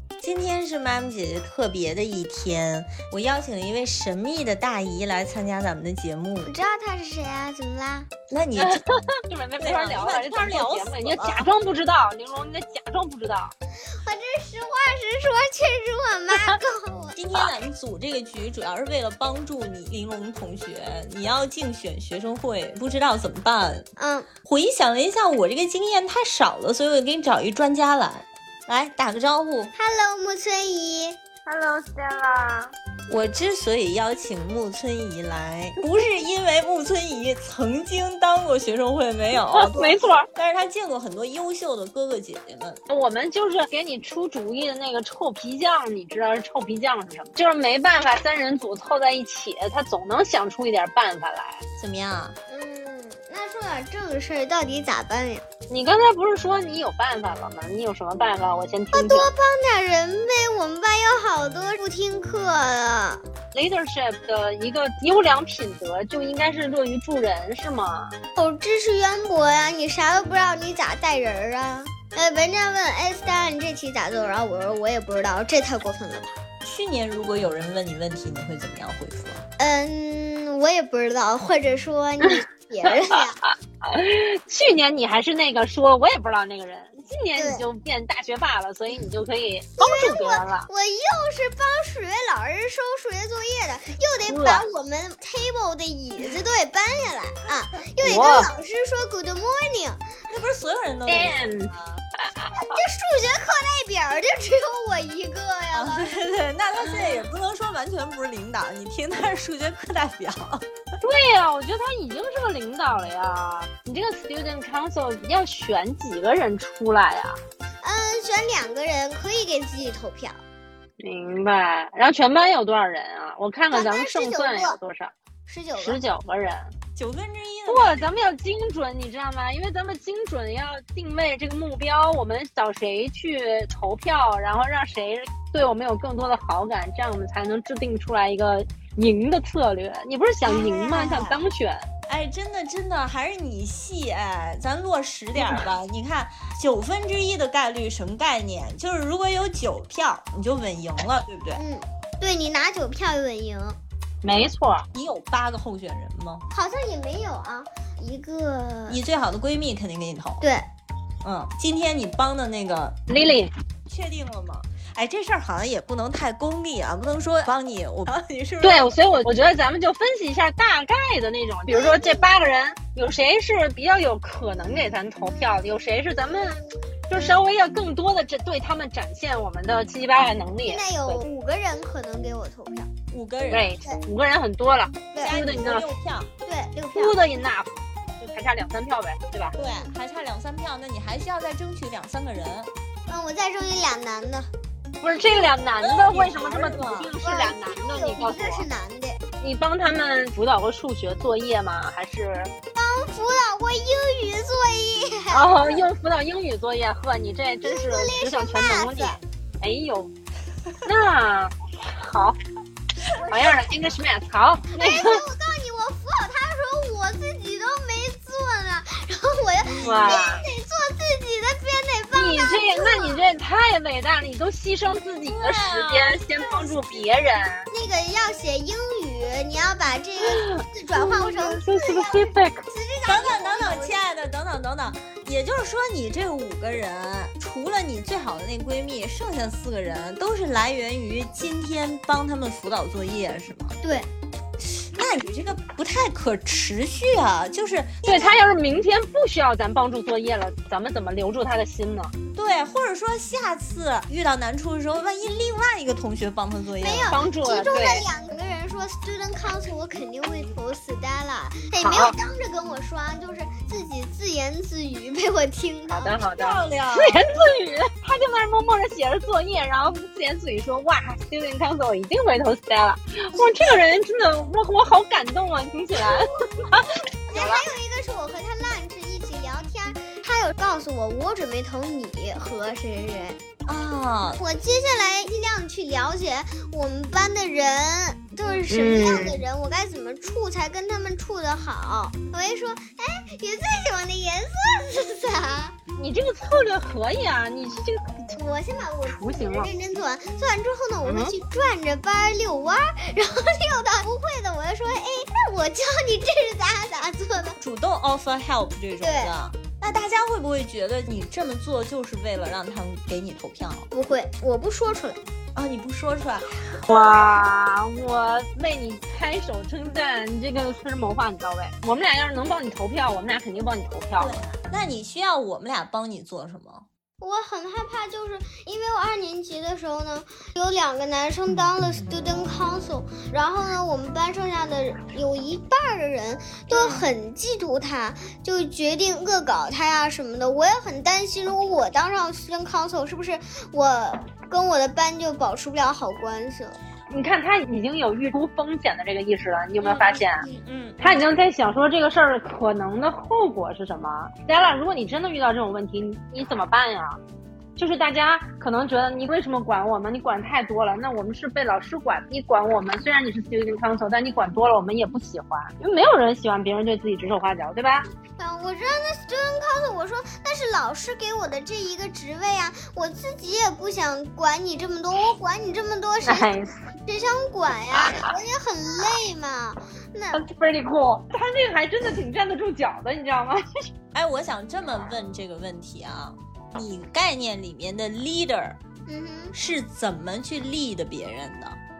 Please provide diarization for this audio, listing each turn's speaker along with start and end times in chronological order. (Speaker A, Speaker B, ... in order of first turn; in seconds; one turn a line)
Speaker A: 0.2-6.5
Speaker B: 6.4-8.1
Speaker A: 8.3-8.8
Speaker C: 8.6-13.5
Speaker A: 9.6-11.5
Speaker B: 14.0-17.1
Speaker A: 17.1-23.8
Speaker B: 24.0-24.3
Speaker A: 24.4-29.7
Speaker B: 29.8-31.2
Speaker C: 31.4-32.7
Speaker A: 33.1-42.8
Speaker C: 39.4-40.3
Speaker C: 42.9-51.6
Speaker A: 51.8-52.3
Speaker B: 52.5-55.4
Speaker C: 55.7-59.3
Speaker B: 58.9-63.2
Speaker C: 63.5-68.1
Speaker B: 68.3-76.3
Speaker A: 76.6-79.4
Speaker B: 79.6-83.3
Speaker C: 82.3-90.7
Speaker B: 87.3-87.6
Speaker B: 89.8-100.0
Speaker C: 94.3-94.7
Speaker C: 98.0-98.5
Speaker A: 100.3-102.0
Speaker C: 101.1-102.5
Speaker B: 102.5-106.1
Speaker A: 105.7-110.6
Speaker C: 106.8-107.2
Speaker C: 111.0-117.4
Speaker B: 117.8-120.4
Speaker C: 121.0-125.1
Speaker B: 123.7-124.8
Speaker B: 125.5-126.0
Speaker C: 125.8-126.7
Speaker A: 127.0-128.1
Speaker C: 127.7-141.9
Speaker B: 140.5-141.3
Speaker A: 142.1-151.6
Speaker C: 145.4-145.7
Speaker B: 151.6-153.8
Speaker C: 154.2-154.8
Speaker A: 154.9-156.4
Speaker B: 156.5-159.0
Speaker A: 158.9-160.4
Speaker B: 160.4-160.7
Speaker A: 161.2-163.0
Speaker C: 163.1-163.5
Speaker A: 163.9-168.9
Speaker C: 168.6-176.6
Speaker B: 171.7-172.3
Speaker B: 176.2-177.4
Speaker C: 177.1-181.2
Speaker B: 180.7-182.9
Speaker A: 183.1-183.7
Speaker C: 183.5-185.9
Speaker A: 185.2-186.3
Speaker B: 186.4-187.2
Speaker C: 186.9-189.6
Speaker A: 189.6-192.7
Speaker B: 193.1-194.5
Speaker C: 195.0-198.7
Speaker A: 195.8-197.1
Speaker B: 197.2-199.2
Speaker C: 199.4-202.5
Speaker B: 202.7-205.4
Speaker C: 205.3-210.1
Speaker B: 207.6-209.2
Speaker C: 210.8-212.4
Speaker C: 213.2-215.2
Speaker B: 214.7-223.2
Speaker C: 219.6-220.4
Speaker C: 222.1-227.7
Speaker A: 225.3-226.5
Speaker B: 227.7-234.0
Speaker C: 230.4-232.6
Speaker A: 233.1-243.8
Speaker B: 243.8-244.1
Speaker A: 244.6-248.3
Speaker C: 248.0-252.1
Speaker A: 252.3-257.1
Speaker B: 256.8-266.2
Speaker C: 257.0-258.1
Speaker C: 261.8-262.1
Speaker C: 265.9-277.6
Speaker A: 266.3-267.2
Speaker B: 277.3-283.4
Speaker A: 283.6-284.4
Speaker B: 284.3-295.7
Speaker C: 288.7-289.4
Speaker C: 296.0-298.3
Speaker B: 298.3-307.6
Speaker C: 299.1-299.7
Speaker C: 301.0-301.3
Speaker A: 307.6-313.9
Speaker B: 309.0-309.3
Speaker B: 313.9-315.2
Speaker A: 315.5-316.7
Speaker C: 316.8-324.5
Speaker A: 324.2-326.9
Speaker B: 327.2-346.8
Speaker C: 336.7-337.0
Speaker C: 347.1-350.5
Speaker A: 350.4-351.1
Speaker C: 351.0-357.2
Speaker C: 357.8-368.1
Speaker B: 368.4-376.5
Speaker C: 376.2-376.9
Speaker B: 377.1-380.4
Speaker C: 377.9-378.3
Speaker C: 380.3-383.6
Speaker A: 384.1-388.8
Speaker B: 389.1-389.5
Speaker A: 389.5-391.8